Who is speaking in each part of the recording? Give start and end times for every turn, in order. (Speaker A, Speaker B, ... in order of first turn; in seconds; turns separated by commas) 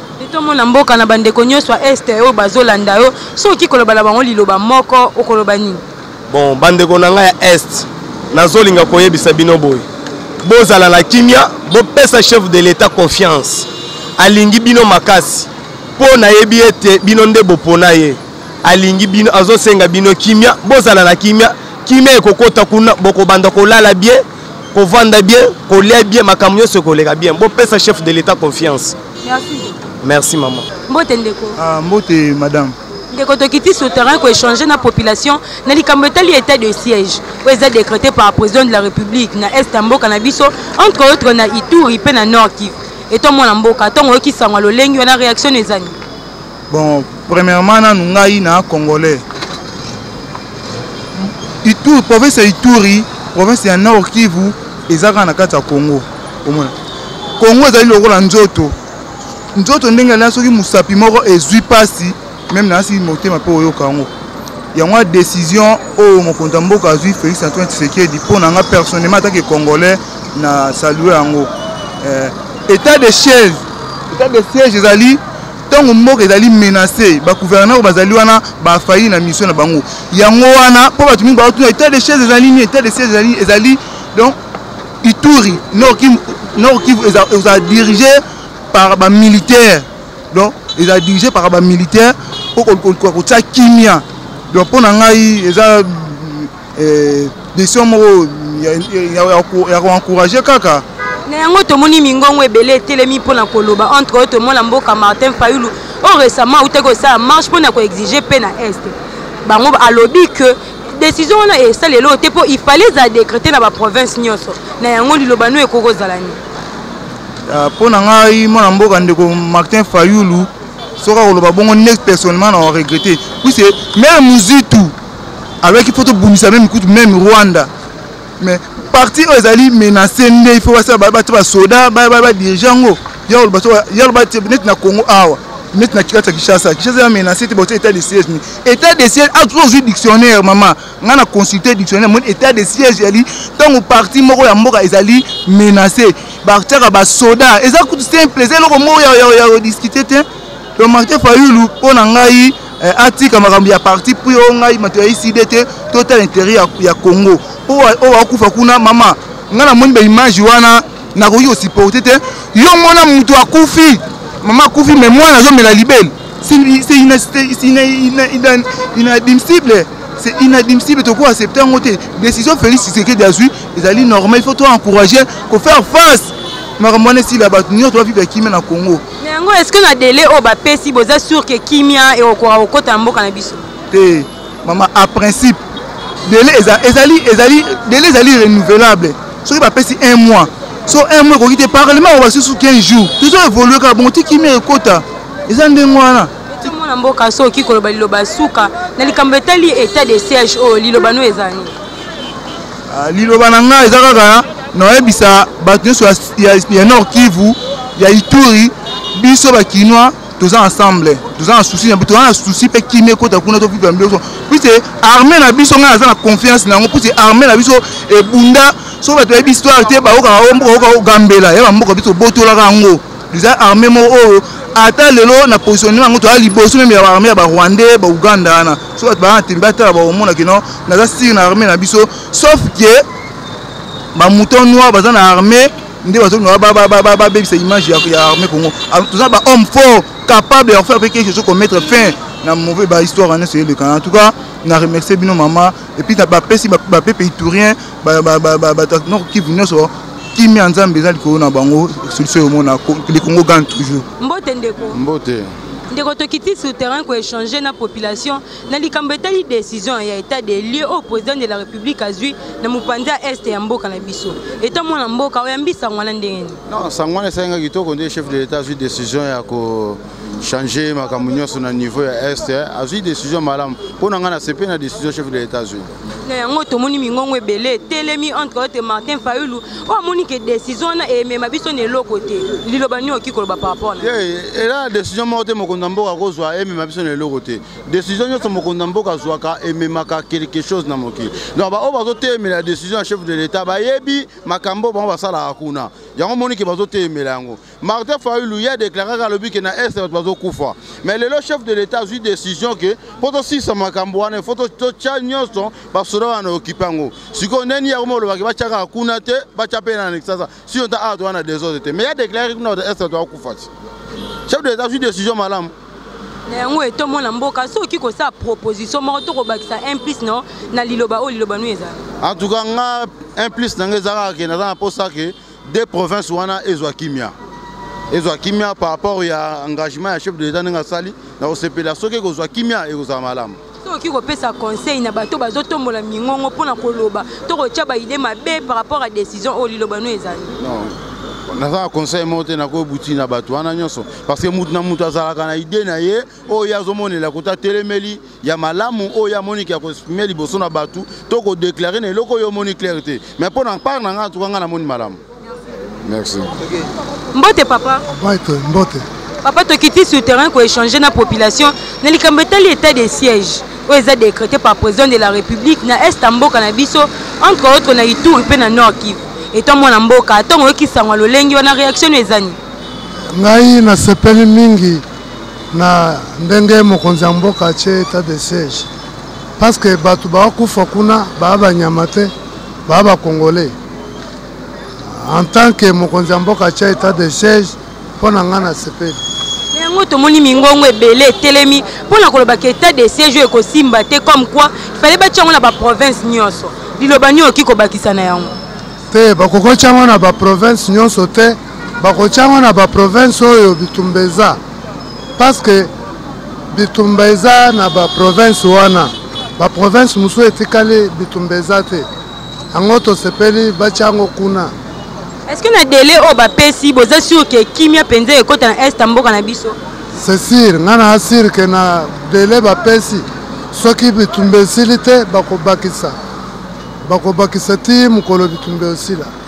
Speaker A: 0.2-5.8, Speaker B: 6.3-9.9, Speaker B: 10.4-28.9, Speaker A: 29.2-29.7, Speaker B: 30.0-30.7, Speaker A: 30.9-31.6, Speaker C: 31.6-32.8, Speaker A: 33.1-46.0, Speaker C: 46.7-49.2, Speaker C: 51.2-56.7, Speaker C: 57.4-58.8, Speaker C: 59.5-64.1, Speaker C: 64.7-71.5, Speaker C: 72.0-84.4, Speaker C: 85.0-88.2, Speaker C: 88.7-100.8, Speaker A: 101.3-116.4, Speaker C: 117.5-125.0, Speaker C: 125.6-127.7, Speaker C: 128.4-179.0, Speaker A: 179.2-183.7, Speaker C: 183.9-185.6, Speaker C: 186.3-196.3, Speaker A: 196.5-201.7, Speaker C: 202.9-233.0, Speaker C: 234.1-254.1, Speaker A: 254.2-255.0, Speaker D: 254.9-255.5, Speaker A: 255.9-266.6, Speaker D: 266.7-275.9, Speaker A: 276.2-284.1, Speaker D: 284.0-313.7, Speaker D: 314.5-315.7, Speaker A: 316.5-322.0, Speaker D: 322.2-327.3, Speaker D: 328.1-333.6, Speaker A: 333.8-340.5, Speaker D: 340.6-340.9, Speaker D: 341.5-355.2, Speaker D: 356.1-356.6, Speaker A: 357.3-358.1, Speaker E: 358.1-359.1, Speaker A: 359.4-372.6, Speaker E: 373.3-375.0, Speaker E: 375.7-378.9, Speaker E: 379.6-382.3, Speaker E: 382.9-383.7, Speaker E: 385.1-389.2, Speaker A: 389.7-398.6, Speaker E: 399.1-404.6, Speaker E: 405.4-405.9, Speaker E: 406.7-412.1, Speaker E: 412.7-414.7, Speaker A: 415.5-419.8, Speaker E: 420.1-426.2, Speaker E: 427.0-429.3